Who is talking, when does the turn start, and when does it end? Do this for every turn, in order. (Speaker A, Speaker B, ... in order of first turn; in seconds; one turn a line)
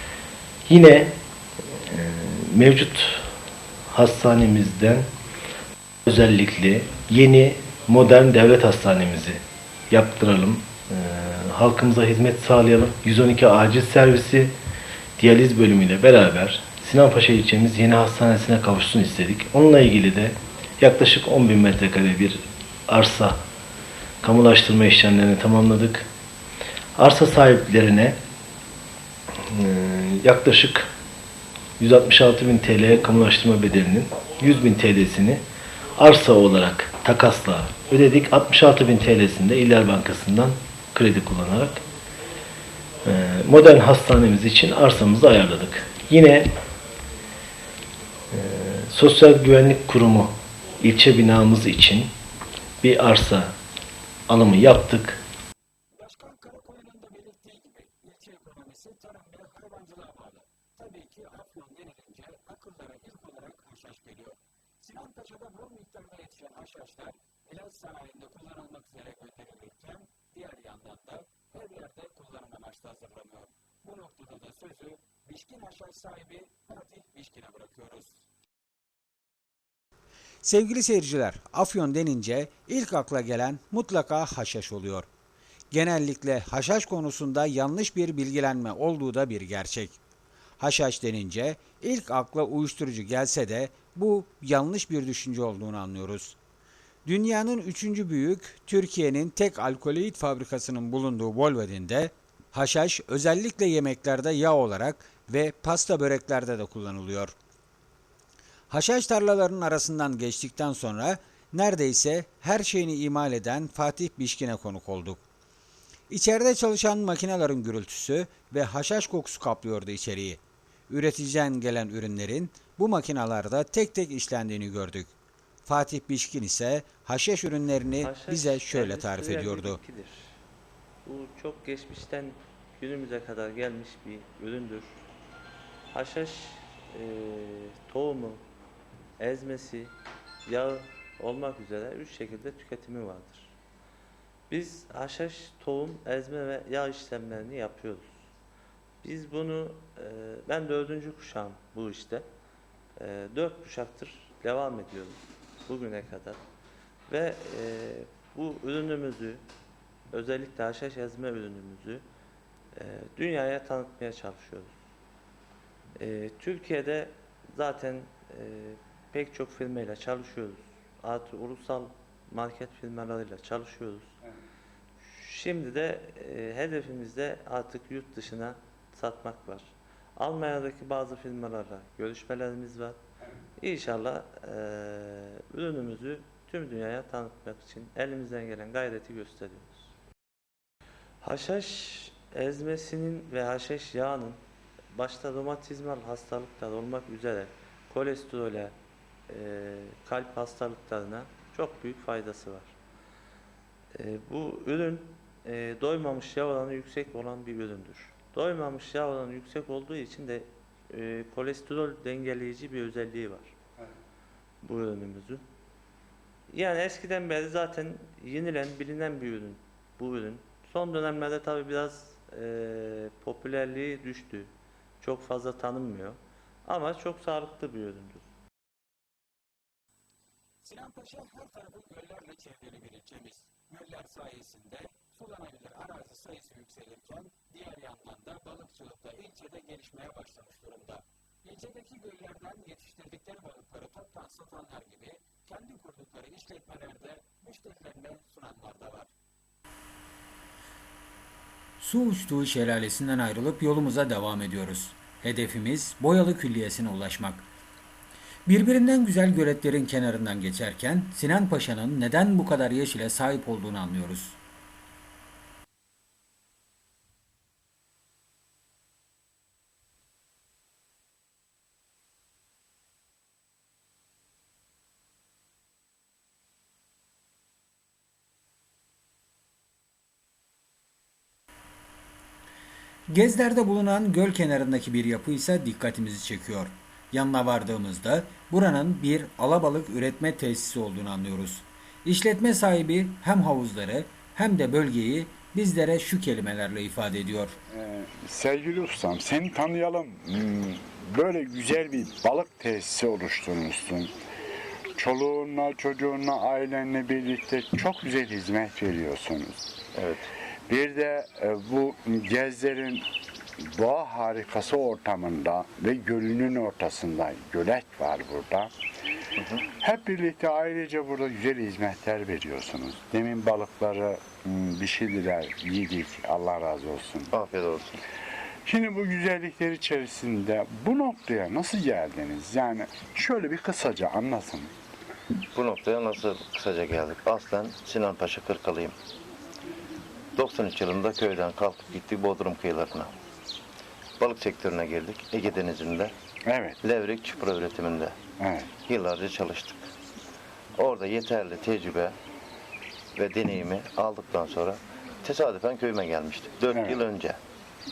Speaker A: 0.7-1.1
Speaker A: 1.7-3.3
Speaker A: 3.9-5.1
Speaker A: 6.1-14.5
Speaker A: 15.2-23.4
Speaker A: 24.2-26.1
Speaker A: 27.0-28.2
Speaker A: 29.4-30.9
Speaker A: 31.8-35.4
Speaker A: 36.0-41.8
Speaker A: 43.0-46.5
Speaker A: 48.3-52.1
Speaker A: 52.8-53.5
Speaker A: 54.3-55.2
Speaker B: 56.0-78.1
Speaker C: 80.4-85.1
Speaker C: 85.7-90.0
Speaker C: 90.6-96.4
Speaker C: 97.1-107.3
Speaker C: 108.7-115.2
Speaker C: 116.1-125.1
Speaker C: 125.7-129.8
Speaker D: 128.0-130.3
Speaker D: 131.1-135.0
Speaker D: 135.9-138.4
Speaker D: 139.2-139.9
Speaker D: 140.5-143.5
Speaker D: 144.5-148.2
Speaker D: 149.0-152.3
Speaker D: 153.0-156.4
Speaker D: 157.1-159.4
Speaker D: 160.1-162.0
Speaker D: 162.8-164.7
Speaker D: 166.0-174.2
Speaker D: 175.1-183.0
Speaker D: 183.6-189.9
Speaker D: 191.2-194.4
Speaker D: 194.9-198.7
Speaker D: 199.3-202.7
Speaker D: 204.0-213.5
Speaker D: 214.6-215.4
Speaker D: 216.5-228.3
Speaker B: 230.6-249.1
Speaker C: 251.8-257.5
Speaker C: 258.5-264.4
Speaker C: 283.1-297.6
Speaker E: 297.7-304.1
Speaker E: 305.0-309.7
Speaker F: 309.9-310.3
Speaker E: 310.7-313.1
Speaker E: 313.7-318.7
Speaker E: 319.8-327.3
Speaker F: 327.3-328.0
Speaker E: 328.6-334.7
Speaker F: 335.5-339.0
Speaker F: 340.4-343.1
Speaker F: 344.2-346.1
Speaker E: 346.5-346.8
Speaker F: 346.8-348.2
Speaker E: 348.4-348.8
Speaker F: 348.8-349.9
Speaker F: 350.8-352.2
Speaker F: 353.2-357.4
Speaker E: 356.7-357.0